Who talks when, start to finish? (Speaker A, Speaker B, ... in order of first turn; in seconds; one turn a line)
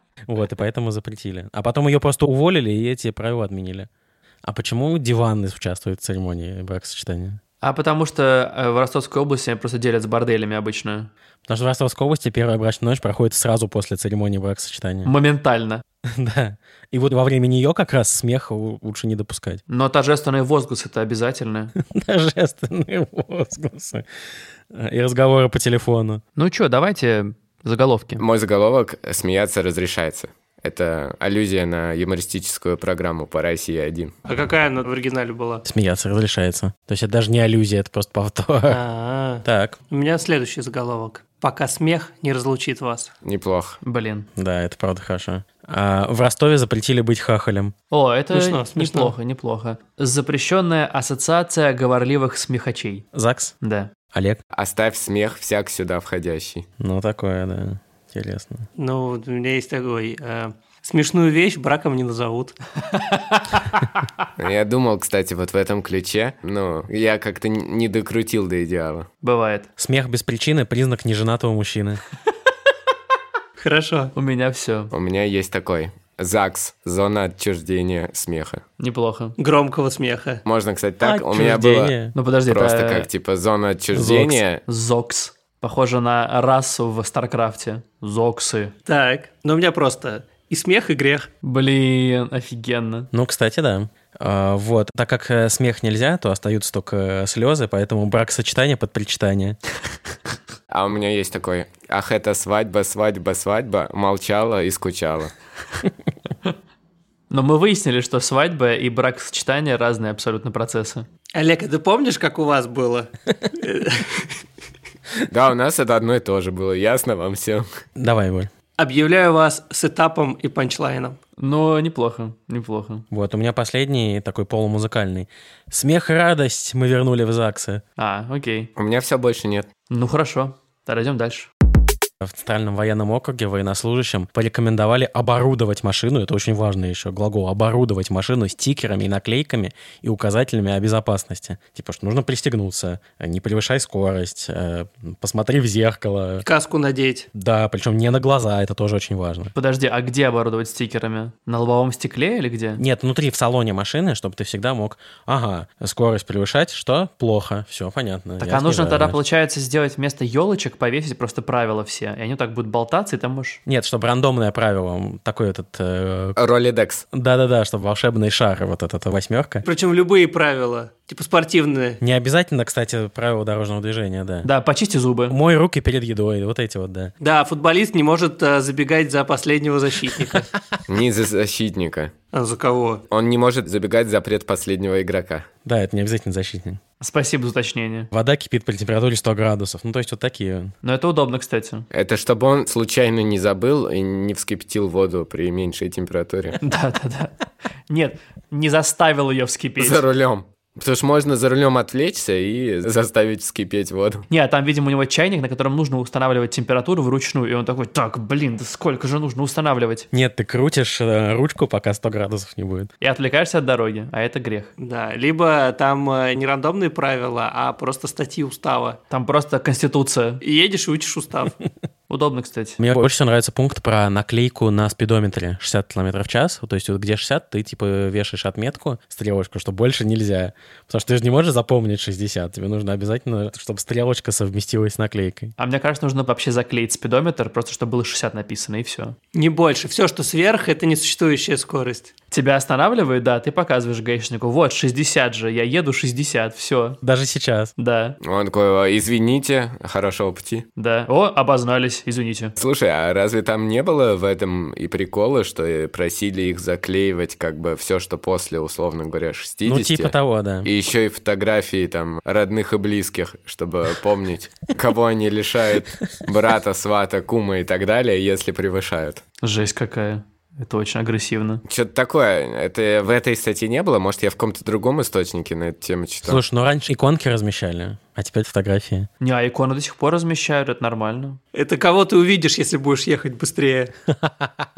Speaker A: 0.3-3.9
Speaker A: 4.4-7.4
Speaker B: 7.6-11.1
Speaker A: 11.5-15.1
Speaker B: 15.0-15.8
Speaker A: 16.0-19.6
Speaker B: 19.7-21.7
Speaker A: 21.8-24.0
Speaker A: 24.7-26.2
Speaker B: 26.4-28.2
Speaker C: 28.2-34.1
Speaker D: 34.2-35.6
Speaker A: 35.6-38.8
Speaker D: 38.7-43.1
Speaker A: 39.4-39.8
Speaker C: 43.2-43.8
Speaker B: 43.8-44.3
Speaker A: 44.4-47.7
Speaker B: 47.9-53.0
Speaker D: 48.3-49.1
Speaker A: 53.1-53.5
Speaker B: 53.6-53.9
Speaker A: 54.1-54.4
Speaker C: 54.5-56.7
Speaker A: 56.8-58.6
Speaker D: 58.8-62.6
Speaker B: 63.1-63.9
Speaker C: 64.4-69.1
Speaker B: 69.2-69.7
Speaker A: 69.8-72.0
Speaker D: 73.6-74.1
Speaker B: 74.1-74.9
Speaker C: 74.9-78.6
Speaker B: 78.8-79.3
Speaker D: 79.4-80.4
Speaker C: 80.4-81.9
Speaker A: 81.0-82.1
Speaker B: 82.1-83.1
Speaker C: 82.5-84.6
Speaker A: 83.9-84.4
Speaker B: 84.7-88.7
Speaker D: 88.8-91.3
Speaker B: 91.4-93.1
Speaker A: 93.1-99.6
Speaker C: 100.7-105.3
Speaker B: 107.3-111.0
Speaker D: 111.3-114.3
Speaker C: 115.3-117.6
Speaker A: 118.0-118.5
Speaker D: 118.8-121.2
Speaker B: 121.4-123.0
Speaker A: 123.1-127.8
Speaker B: 128.0-128.7
Speaker C: 128.8-129.7
Speaker B: 129.9-131.5
Speaker A: 132.2-146.4
Speaker D: 146.4-147.3
Speaker A: 147.3-149.5
Speaker B: 149.5-152.8
Speaker A: 152.8-159.2
Speaker B: 158.4-163.6
Speaker A: 163.7-166.3
Speaker C: 166.3-167.1
Speaker A: 167.1-169.6
Speaker D: 169.6-172.0
Speaker A: 172.0-174.5
Speaker B: 174.4-175.4
Speaker A: 175.3-177.1
Speaker D: 177.2-180.5
Speaker C: 180.9-182.1
Speaker D: 182.3-183.0
Speaker C: 183.1-185.5
Speaker A: 185.6-186.8
Speaker B: 187.0-188.1
Speaker A: 188.1-190.7
Speaker B: 190.8-191.8
Speaker C: 191.9-196.6
Speaker B: 196.6-197.3
Speaker B: 197.9-200.0
Speaker C: 199.8-204.2
Speaker B: 204.3-210.1
Speaker A: 210.1-212.9
Speaker B: 213.0-214.7
Speaker D: 214.8-219.0
Speaker B: 219.1-220.4
Speaker D: 220.4-221.6
Speaker B: 222.1-222.8
Speaker A: 222.8-235.5
Speaker B: 235.6-239.2
Speaker D: 239.3-242.1
Speaker B: 242.3-247.0
Speaker A: 247.0-247.7
Speaker B: 247.8-248.2
Speaker C: 248.2-250.7
Speaker B: 250.8-252.6
Speaker C: 252.6-269.2
Speaker A: 259.6-260.7
Speaker B: 269.4-271.6
Speaker C: 271.6-276.4
Speaker A: 276.2-279.1
Speaker B: 279.2-281.4
Speaker D: 281.5-283.9
Speaker A: 284.2-284.6